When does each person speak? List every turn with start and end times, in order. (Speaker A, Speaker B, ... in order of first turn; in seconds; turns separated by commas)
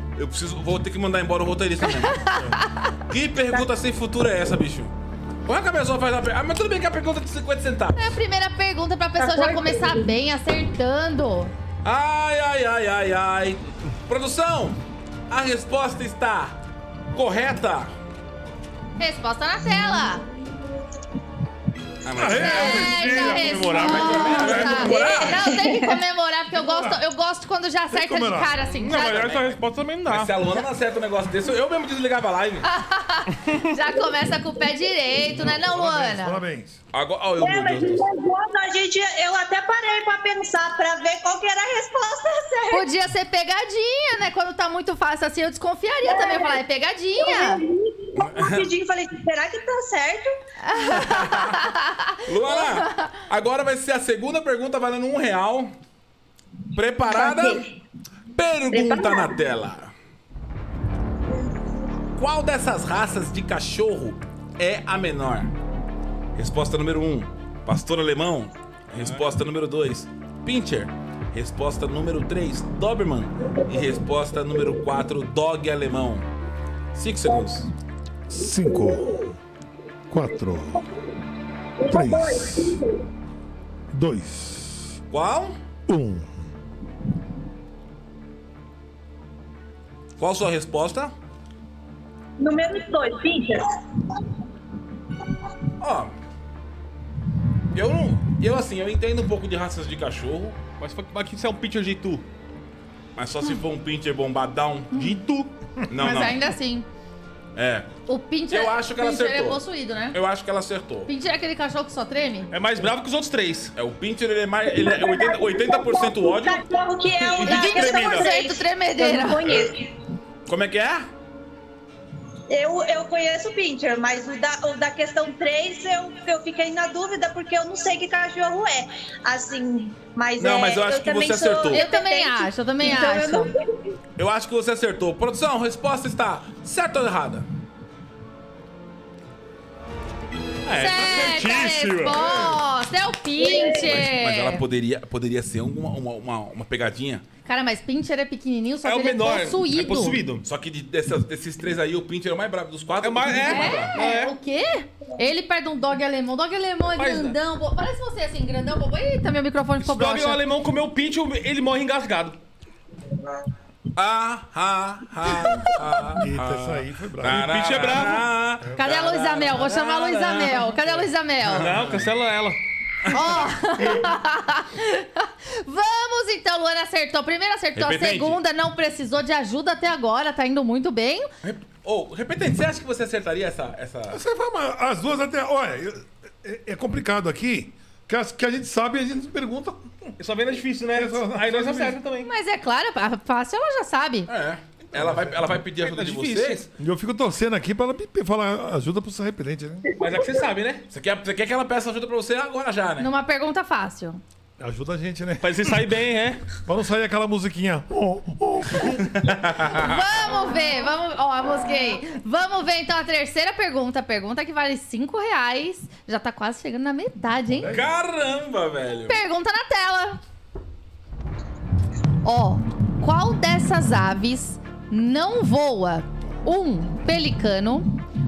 Speaker A: 0.2-2.2, Speaker B: 1.9-2.9, Speaker A: 3.1-4.9, Speaker A: 5.5-8.1, Speaker B: 8.0-11.5, Speaker C: 9.2-10.1, Speaker A: 11.8-16.6, Speaker A: 17.1-17.9, Speaker B: 19.0-20.2, Speaker A: 22.0-23.0, Speaker D: 22.1-24.8, Speaker B: 22.4-29.5, Speaker E: 22.8-24.7, Speaker A: 23.7-25.3, Speaker C: 24.6-26.0, Speaker D: 26.5-27.0, Speaker D: 27.9-28.6, Speaker E: 28.8-30.3, Speaker A: 30.1-32.7, Speaker B: 32.6-36.4, Speaker D: 35.3-36.8, Speaker A: 36.9-38.0, Speaker C: 37.4-42.9, Speaker B: 42.7-47.6, Speaker C: 46.1-46.6, Speaker C: 47.2-50.4, Speaker A: 48.2-48.7, Speaker B: 50.6-53.2, Speaker A: 50.9-51.6, Speaker A: 52.3-55.7, Speaker A: 56.7-57.6, Speaker C: 57.0-57.6, Speaker A: 58.3-59.9, Speaker C: 58.7-59.4, Speaker A: 62.1-65.5, Speaker A: 66.3-76.3, Speaker E: 68.9-69.2, Speaker A: 76.9-77.7, Speaker D: 78.3-79.4, Speaker D: 80.1-80.8, Speaker C: 81.8-83.0, Speaker D: 81.9-82.8, Speaker D: 83.9-85.0, Speaker A: 85.1-85.5, Speaker D: 85.9-86.5, Speaker A: 90.2-91.1, Speaker C: 92.4-93.7, Speaker A: 95.8-96.1, Speaker A: 97.7-100.6, Speaker E: 100.8-102.2, Speaker A: 103.2-104.9, Speaker E: 104.9-105.5, Speaker A: 105.9-106.4, Speaker B: 106.0-106.9, Speaker A: 107.5-107.9, Speaker B: 108.1-110.2, Speaker A: 108.5-111.1, Speaker B: 111.1-112.5, Speaker E: 112.5-113.7, Speaker A: 113.8-116.6, Speaker C: 114.7-119.9, Speaker E: 117.4-118.2, Speaker B: 117.4-119.7, Speaker A: 120.5-121.1, Speaker C: 122.5-133.7, Speaker A: 130.4-131.8, Speaker B: 131.7-133.5, Speaker A: 134.2-137.4, Speaker E: 140.6-142.4, Speaker B: 140.7-144.6, Speaker C: 143.4-143.9, Speaker A: 143.7-147.2, Speaker B: 147.4-150.2, Speaker E: 148.8-150.4, Speaker A: 150.4-153.9, Speaker E: 153.0-154.3, Speaker B: 153.4-160.4, Speaker E: 157.0-157.4, Speaker E: 159.8-162.4, Speaker A: 163.9-170.9, Speaker D: 166.2-168.0, Speaker E: 167.3-168.3, Speaker B: 168.8-171.7, Speaker E: 171.5-172.6, Speaker A: 171.5-172.1, Speaker B: 173.1-181.3, Speaker A: 177.8-178.4, Speaker A: 181.4-184.2, Speaker D: 184.1-190.1, Speaker E: 190.2-192.3, Speaker D: 190.9-192.0, Speaker B: 192.2-194.3, Speaker A: 194.3-196.7, Speaker D: 194.9-195.3, Speaker E: 195.8-196.7, Speaker D: 196.8-199.8, Speaker E: 200.0-200.8, Speaker A: 200.9-203.1, Speaker B: 203.0-204.2, Speaker D: 204.6-205.9, Speaker E: 205.4-206.4, Speaker D: 206.7-209.1, Speaker A: 209.1-210.0, Speaker B: 209.7-217.7, Speaker D: 217.5-217.9, Speaker A: 217.7-219.2, Speaker B: 219.1-220.2, Speaker B: 222.2-227.9